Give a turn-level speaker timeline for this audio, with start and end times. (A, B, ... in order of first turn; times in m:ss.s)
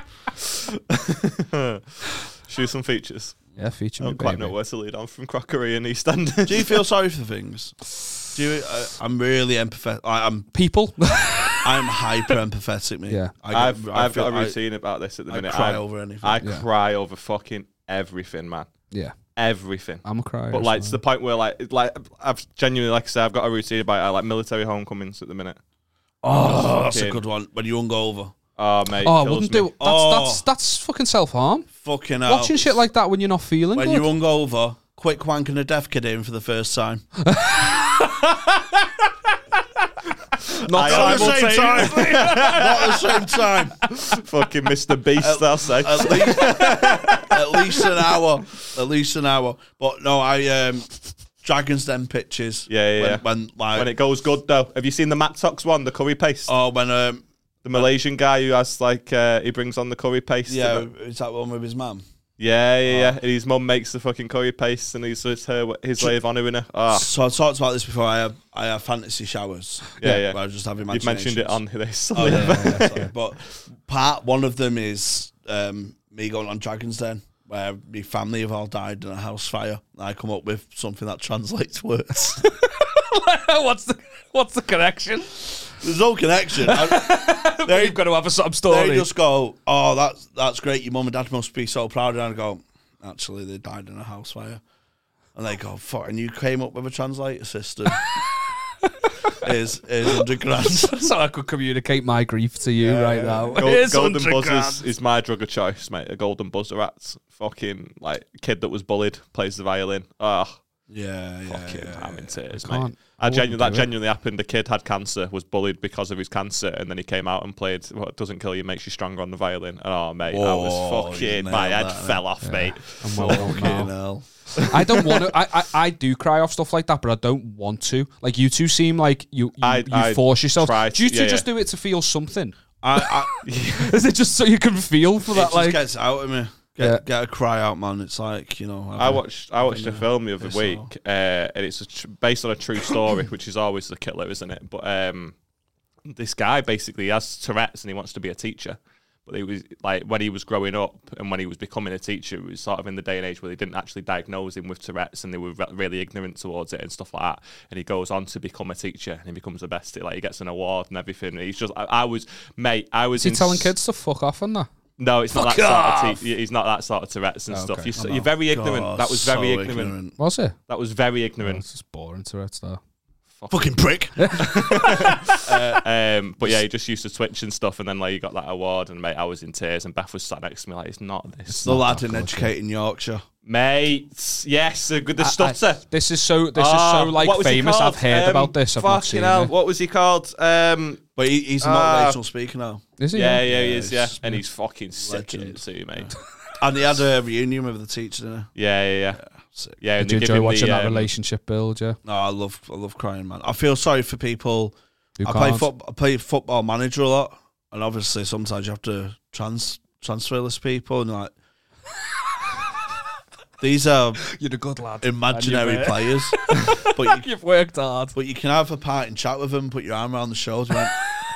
0:00.5-0:03.4 A
0:03.6-0:04.5 B
0:04.0-0:06.8 A
0:06.4-0:10.5 C
0:10.5-0:12.3 B
0:11.6-0:14.6 C
0:13.1-0:13.3 B
0:13.5-0:18.7 A
0:15.3-0:16.4 C
0:19.4-0:25.6 A
0:20.0-0:21.0 B
0:26.2-0:28.3 C
0:26.3-0:27.2 A
0:28.6-0:29.7 A
0:29.0-0:31.7 B
0:29.8-0:30.4 C
0:31.8-0:32.8 C
0:32.2-0:34.0 B
0:33.7-0:37.0 C
0:37.2-0:39.0 B
0:40.5-0:43.5 B
0:40.6-0:42.9 A
0:40.8-0:43.8 C
0:43.9-0:47.9 A
0:45.2-0:50.9 C
0:51.4-0:53.9 C
0:52.7-0:56.5 A
0:56.5-0:57.9 C
0:57.6-1:00.9 A
1:00.5-1:02.0 C
1:02.4-1:07.1 A
1:02.8-1:03.2 C
1:06.9-1:11.6 C
1:10.0-1:10.4 A
1:10.9-1:13.0 A
1:12.1-1:22.4 C
1:12.2-1:13.1 B
1:22.4-1:25.6 B
1:25.8-1:28.0 C
1:26.6-1:29.1 B
1:28.7-1:34.6 C
1:35.3-1:38.1 C
1:38.9-1:39.4 B
1:39.4-1:41.1 C
1:40.1-1:44.8 B
1:42.8-1:43.7 C
1:43.6-1:50.6 A
1:50.9-1:52.3 C
1:51.5-2:03.8 A
1:52.5-1:53.9 B
2:00.3-2:02.2 C
2:02.4-2:03.9 B
2:03.2-2:04.6 C
2:04.6-2:05.0 A
2:04.7-2:15.8 B
2:09.6-2:11.4 A
2:12.8-2:13.3 C
2:13.4-2:13.9 A
2:15.3-2:20.9 C
2:19.0-2:25.3 A
2:26.0-2:43.7 A
2:43.2-2:44.7 B
2:45.0-2:50.0 A
2:45.3-2:46.2 B
2:47.5-2:48.3 B
2:48.4-2:50.2 C
2:50.2-2:50.6 B
2:50.7-2:51.6 A
2:51.4-2:52.8 B
2:53.4-2:53.6 A
2:53.5-2:55.8 C
2:54.2-2:54.4 B
2:54.3-3:01.7 A
3:01.5-3:02.5 B
3:01.6-3:03.2 C
3:03.4-3:05.8 A
3:05.2-3:09.5 B
3:06.5-3:11.0 A
3:11.2-3:12.8 C
3:11.6-3:12.2 A
3:13.0-3:13.5 B
3:13.1-3:16.1 A
3:13.4-3:14.2 C
3:15.0-3:18.5 C
3:18.6-3:19.2 A
3:19.2-3:19.8 C
3:19.8-3:21.1 A
3:20.0-3:22.0 B
3:22.0-3:31.3 C
3:25.2-3:25.7 B
3:33.6-3:34.3 C
3:34.2-3:38.2 B
3:35.0-3:37.3 C
3:38.1-3:41.0 C